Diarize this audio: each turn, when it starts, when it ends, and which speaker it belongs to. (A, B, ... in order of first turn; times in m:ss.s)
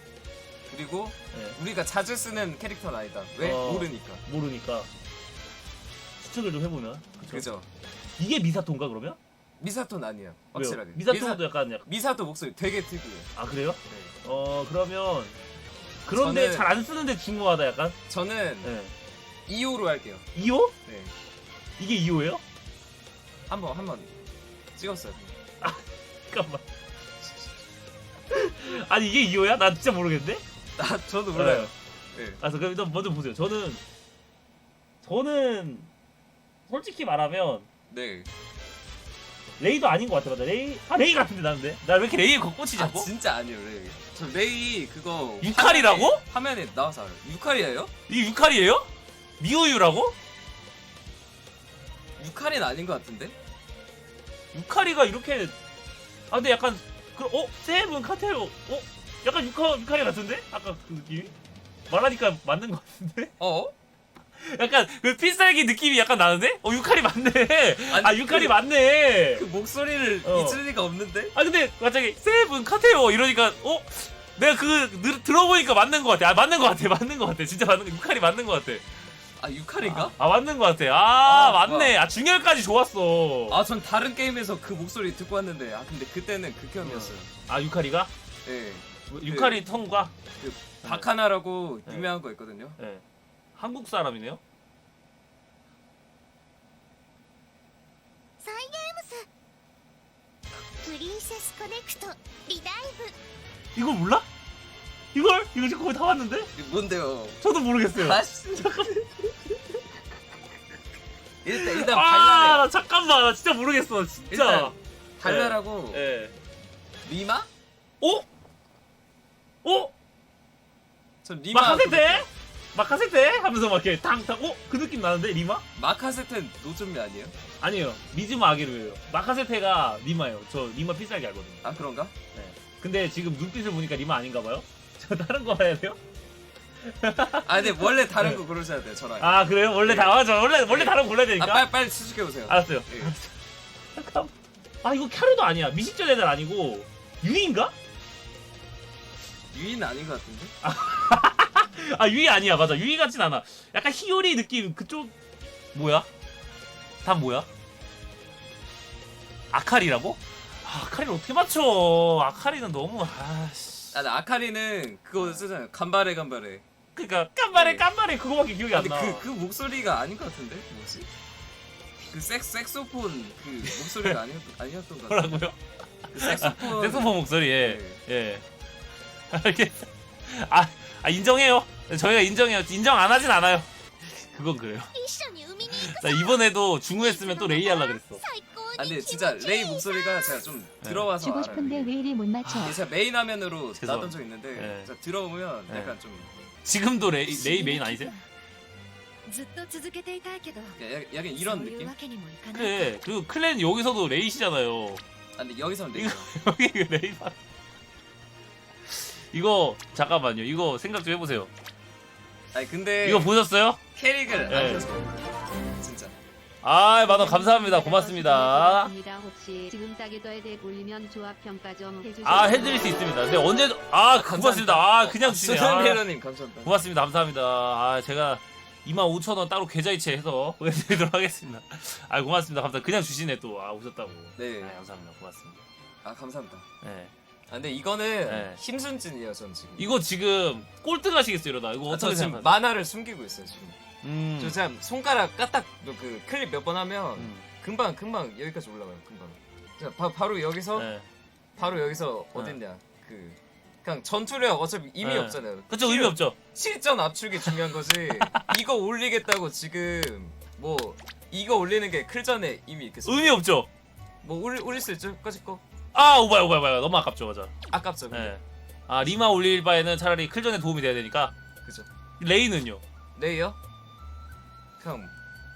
0:00.7-0:04.2 A
0:03.4-0:04.9 B
0:06.2-0:07.5 B
0:07.3-0:07.7 A
0:08.2-0:09.2 B
0:09.6-0:13.3 A
0:10.5-0:11.9 B
0:13.4-0:15.4 B
0:13.9-0:14.1 A
0:16.1-0:18.0 B
0:16.1-0:16.8 A
0:18.1-0:18.7 A
0:18.6-0:18.9 B
0:19.5-0:20.3 A
0:20.4-0:20.7 B
0:20.8-0:21.1 A
0:21.8-0:22.4 B
0:23.5-0:24.1 A
0:24.8-0:25.3 A
0:25.6-0:26.6 B
0:28.3-0:30.4 B
0:30.8-0:32.4 A
0:31.3-0:31.7 B
0:32.4-0:33.8 B
0:35.0-0:35.9 B
0:36.7-0:37.7 B
0:37.9-0:38.3 A
0:39.6-0:43.1 B
0:42.7-0:47.9 A
0:45.4-0:46.2 B
0:48.1-0:48.9 B
0:49.4-0:50.2 B
0:52.2-0:53.4 A
0:54.5-0:55.5 B
0:56.3-1:01.3 B
1:01.9-1:03.3 B
1:03.4-1:03.7 A
1:04.4-1:09.4 B
1:07.9-1:08.6 A
1:09.3-1:11.3 A
1:10.2-1:10.6 B
1:11.3-1:18.9 B
1:19.4-1:20.2 A
1:19.8-1:23.6 B
1:21.2-1:22.0 A
1:23.5-1:27.3 A
1:26.8-1:28.1 B
1:28.4-1:29.7 A
1:29.1-1:30.1 B
1:30.4-1:32.8 A
1:30.8-1:31.1 B
1:31.9-1:32.1 B
1:32.8-1:33.0 B
1:33.6-1:34.4 B
1:38.4-1:39.3 C
1:40.8-1:43.1 C
1:43.8-1:44.3 B
1:45.1-1:46.5 B
1:46.6-1:49.0 A
1:47.4-1:49.8 B
1:51.4-1:52.7 A
1:51.5-1:56.3 B
1:54.3-1:56.1 A
1:57.0-1:57.5 A
1:58.0-1:58.3 B
1:59.6-1:59.9 B
2:01.2-2:02.3 A
2:01.5-2:05.6 B
2:05.8-2:07.3 A
2:07.6-2:11.6 B
2:11.6-2:12.1 A
2:12.3-2:16.0 B
2:16.8-2:18.4 B
2:17.4-2:23.2 A
2:19.2-2:21.7 B
2:22.5-2:23.3 B
2:24.0-2:24.3 B
2:24.8-2:27.7 B
2:29.5-2:30.5 A
2:30.6-2:35.1 B
2:35.7-2:36.1 B
2:37.0-2:37.5 B
2:39.5-2:44.0 B
2:43.9-2:46.6 A
2:47.0-2:49.3 B
2:47.5-2:47.9 A
2:48.7-2:51.1 A
2:52.0-2:55.4 A
2:53.6-2:54.2 B
2:55.1-2:58.4 B
2:56.1-2:58.0 A
2:59.3-3:04.9 B
3:05.0-3:06.4 C
3:05.0-3:06.3 D
3:05.6-3:08.2 B
3:07.0-3:10.3 C
3:07.0-3:08.7 D
3:08.8-3:12.0 A
3:09.4-3:09.7 D
3:10.8-3:11.1 B
3:11.2-3:12.8 D
3:12.4-3:12.8 B
3:12.6-3:16.4 A
3:13.8-3:14.9 B
3:15.7-3:16.0 B
3:16.6-3:18.2 B
3:17.4-3:18.1 D
3:19.5-3:19.9 D
3:20.8-3:21.9 A
3:21.5-3:22.5 D
3:22.5-3:25.0 B
3:25.4-3:26.3 A
3:26.0-3:27.4 B
3:28.9-3:31.5 B
3:32.5-3:33.3 A
3:33.0-3:33.8 B
3:34.0-3:36.2 A
3:34.5-3:34.9 B
3:36.6-3:38.9 B
3:37.1-3:42.1 E
3:42.2-3:46.0 B
3:44.1-3:46.8 A
3:46.6-3:55.6 B
3:54.4-3:54.8 A
3:56.0-3:56.6 A
3:56.8-3:57.1 B
3:57.5-3:59.9 A
3:58.3-3:58.6 B
3:59.8-4:02.6 B
4:01.9-4:03.8 A
4:04.0-4:04.6 B
4:04.4-4:10.9 A
4:07.2-4:07.4 B
4:10.8-4:11.1 B
4:11.6-4:23.5 A
4:15.0-4:16.4 B
4:18.2-4:18.5 B
4:23.0-4:23.7 B
4:24.2-4:25.6 A
4:25.9-4:27.5 B
4:27.7-4:28.4 A
4:28.1-4:31.3 B
4:31.6-4:31.9 A
4:32.2-4:32.8 B
4:33.2-4:33.6 A
4:34.8-4:35.1 A